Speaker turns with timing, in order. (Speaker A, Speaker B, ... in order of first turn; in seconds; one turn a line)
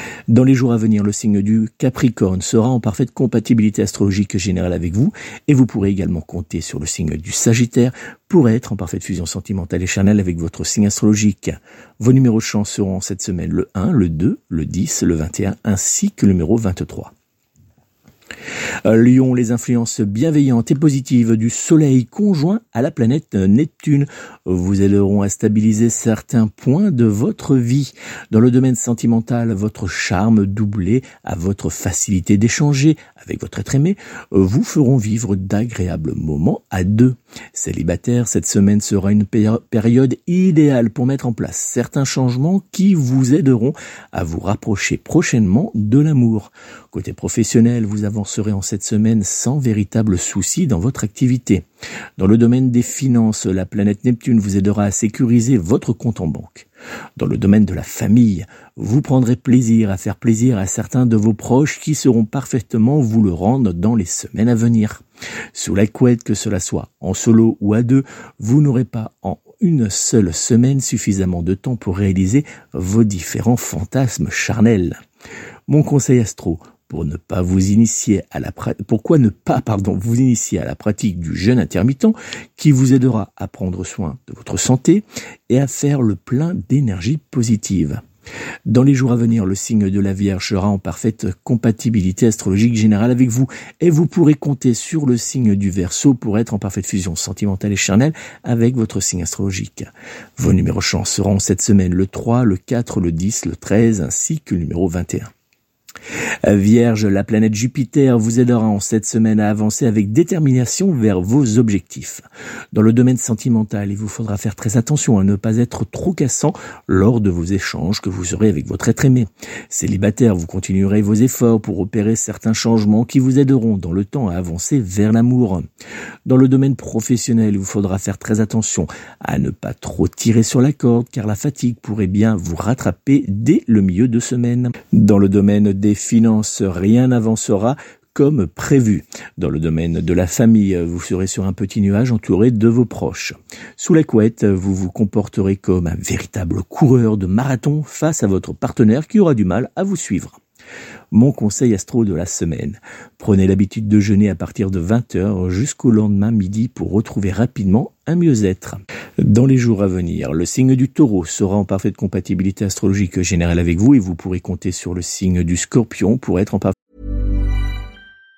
Speaker A: 0.3-17.1
Speaker A: 18.9-51.7
Speaker A: 52.2-65.0
Speaker A: 65.5-75.0
Speaker A: 75.7-88.0
Speaker A: 88.7-105.3
Speaker A: 106.5-125.7
Speaker A: 126.3-150.4
Speaker A: 151.1-166.8